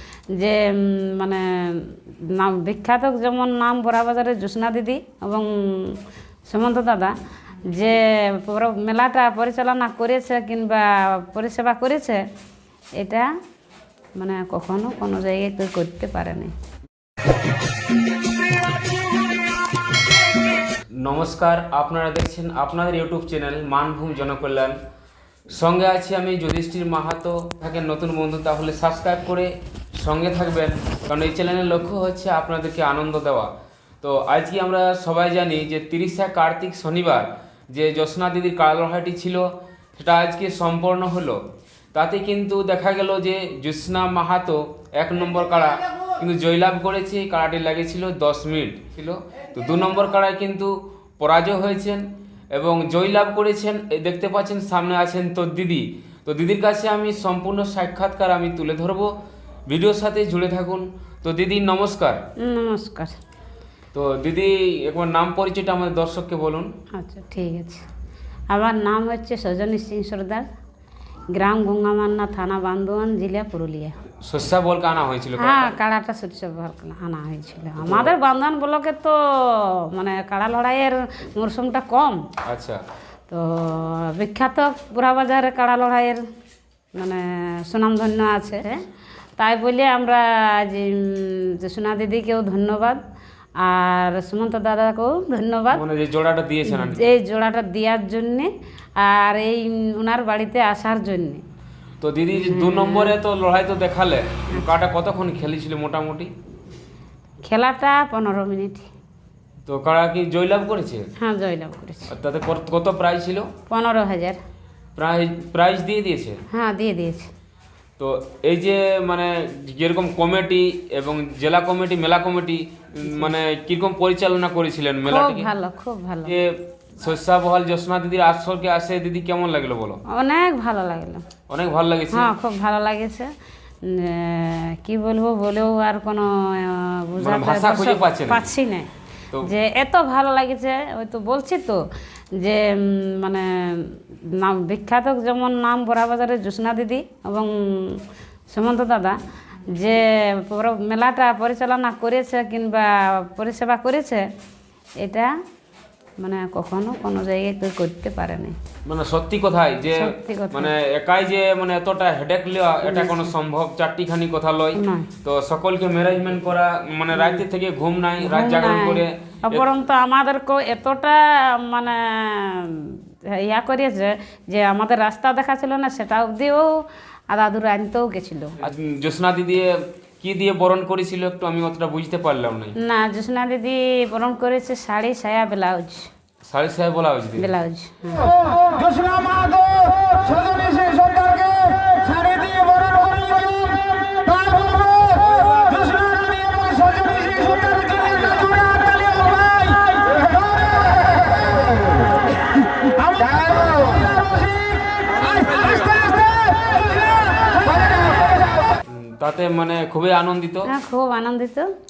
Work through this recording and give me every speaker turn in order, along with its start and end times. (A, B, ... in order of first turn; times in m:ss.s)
0:00.4-0:07.1 A
0:07.7-0:12.2 A
0:13.0-0:13.3 A
0:14.2-0:16.5 A
0:21.0-0:24.8 B
0:25.5-0:33.5 B
0:34.0-0:41.4 B
0:41.9-0:59.1 B
0:59.7-1:02.2 B
1:02.4-1:03.2 A
1:03.9-1:06.7 B
1:06.9-1:07.8 A
1:08.5-1:10.5 A
1:11.3-1:14.0 A
1:14.2-1:15.7 B
1:15.4-1:22.3 A
1:17.8-1:18.1 B
1:22.4-1:22.8 B
1:23.3-1:26.2 A
1:26.9-1:28.8 A
1:29.4-1:33.0 A
1:33.6-1:35.8 A
1:35.7-1:37.1 B
1:36.6-1:41.4 A
1:42.0-1:46.3 B
1:42.3-1:43.1 A
1:47.4-1:48.9 A
1:49.6-1:51.0 B
1:51.2-1:52.1 A
1:52.1-1:53.5 B
1:53.7-1:54.4 A
1:55.0-1:56.4 B
1:56.5-1:57.3 A
1:58.0-2:05.5 B
2:05.1-2:06.3 A
2:06.2-2:10.0 B
2:10.1-2:11.2 A
2:11.5-2:12.3 B
2:12.1-2:13.3 A
2:13.8-2:18.9 A
2:17.2-2:18.4 B
2:19.4-2:21.8 A
2:22.4-2:28.0 A
2:28.5-2:29.2 A
2:29.7-2:34.3 A
2:35.0-2:35.3 A
2:36.2-2:38.6 A
2:38.8-2:49.7 B
2:40.0-2:40.7 A
2:42.8-2:43.3 A
2:44.7-2:45.1 A
2:48.2-2:56.7 A
2:57.3-2:58.6 A
2:58.6-3:02.7 B
3:02.8-3:06.1 A
3:06.4-3:07.5 B
3:07.4-3:08.4 A
3:08.8-3:19.9 C
3:25.2-3:26.7 C
3:28.8-3:30.7 B
3:30.6-3:31.7 A